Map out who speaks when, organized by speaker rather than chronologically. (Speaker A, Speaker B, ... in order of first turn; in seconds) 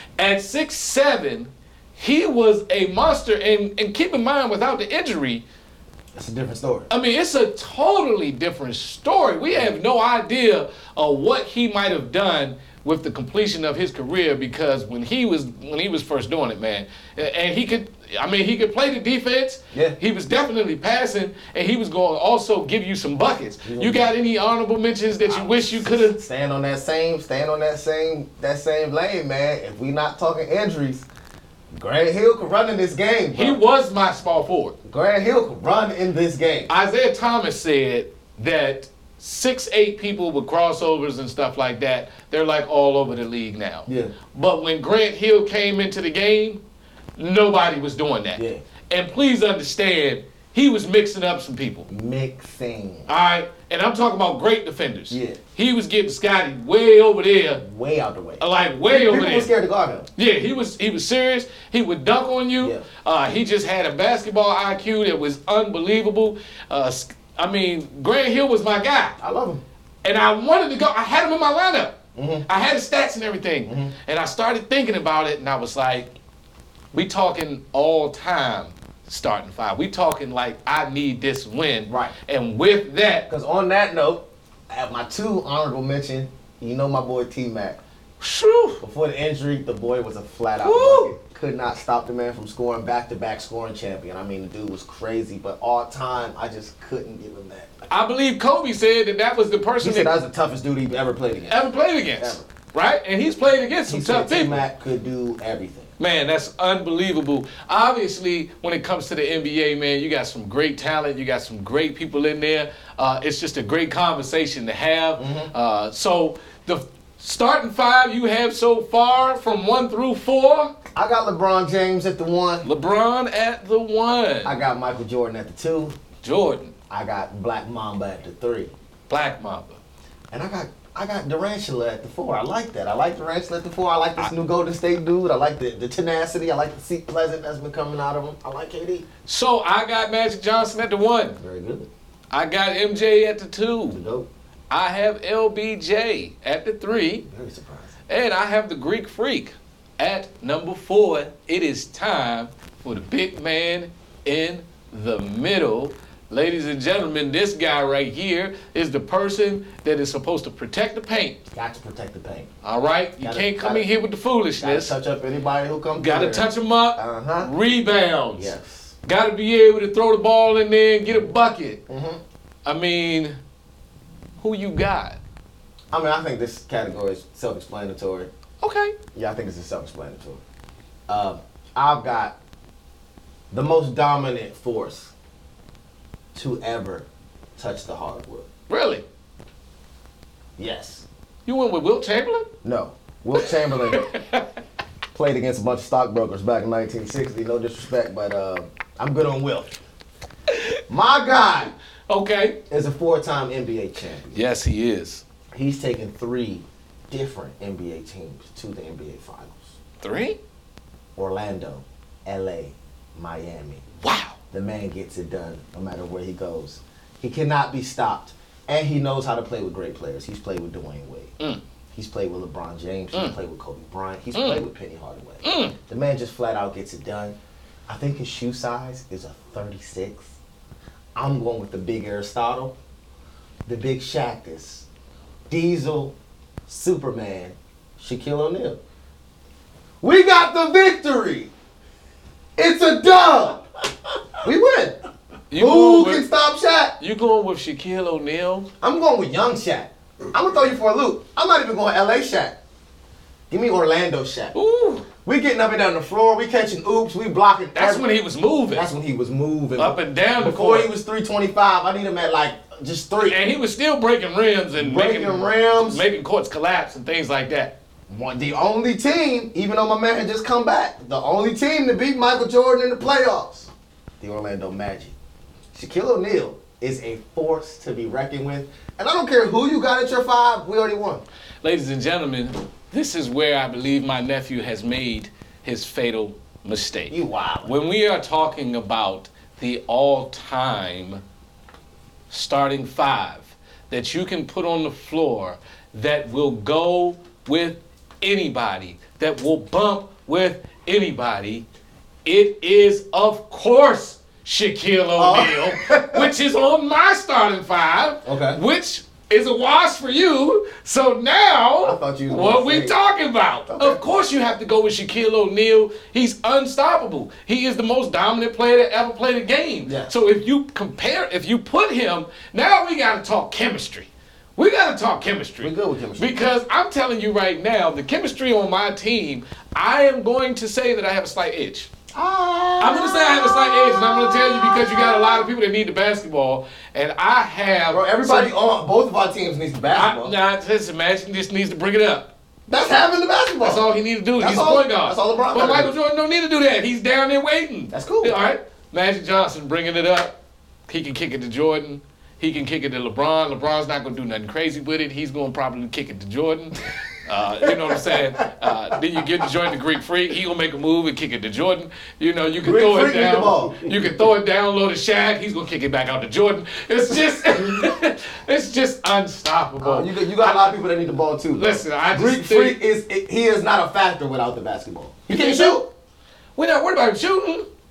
Speaker A: 0.2-5.4, 6.9-26.2, 33.4-34.8, 36.7-46.6, 47.2-51.9, 53.1-57.6, 58.4-59.5, 60.2-69.2, 70.0-76.1, 76.9-83.3, 88.2-88.8, 90.6-91.2, 97.9-100.1, 101.5-104.6, 106.0-120.7, 122.6-124.6, 126.2-126.7, 129.1-129.8, 139.3-141.4, 142.3-144.0, 144.7-147.3, 148.1-161.4, 162.6-164.9, 166.0-171.8, 172.7-173.4, 174.4-175.2, 178.6-178.9, 188.7-189.0, 191.5-192.5, 193.7-194.4, 202.1-202.6, 204.3-205.2, 210.0-210.4, 214.0-214.3, 224.3-224.6, 225.4-225.8, 245.5-246.3, 247.0-248.7, 254.5-255.1, 257.8-258.9, 259.8-260.9, 263.2-267.7, 281.6-291.2, 292.3-301.6, 302.2-331.9, 332.8-338.5, 339.9-342.3, 343.6-350.4, 350.9-370.8, 371.5-372.8, 375.3-375.9, 376.6-377.7
Speaker B: 6.2-6.9, 23.6-24.1, 25.2-31.1, 31.7-33.6, 34.9-36.7, 43.9-44.1, 48.4-48.6, 51.9-53.1, 55.1-55.4, 57.6-60.1, 69.2-69.6, 72.2-72.5, 73.7-73.9, 81.9-82.2, 83.3-87.8, 88.8-97.9, 99.8-102.5, 103.9-105.9, 115.2-115.5, 121.0-122.7, 124.5-126.0, 126.9-128.7, 130.3-139.1, 141.4-141.9, 143.9-144.3, 147.2-147.9, 161.5-162.5, 163.2-163.8, 164.6-167.5, 168.4-168.9, 171.9-172.2, 175.9-178.3, 179.1-180.4, 181.1-182.3, 183.5-185.1, 186.3-187.1, 187.6-188.5, 190.6-191.1, 192.6-194.1, 195.1-199.8, 200.9-201.7, 202.7-204.4, 205.5-209.7, 211.2-213.8, 214.5-221.3, 221.9-227.3, 227.9-230.3, 231.2-232.8, 233.7-234.9, 235.5-236.2, 236.7-238.8, 240.0-241.5, 242.6-243.6, 244.4-245.0, 245.6-247.0, 248.8-252.6, 253.5-254.5, 255.2-258.1, 258.7-263.4, 264.8-266.0, 268.1-275.1, 275.7-281.2, 287.1-287.7, 305.2-306.3, 308.2-308.6, 311.8-312.9, 313.7-314.0, 319.9-320.1, 325.6-326.5, 332.1-335.5, 337.9-340.4, 342.7-343.9, 344.4-345.9, 347.9-348.4, 362.6-364.2, 367.5-367.9, 369.8-375.9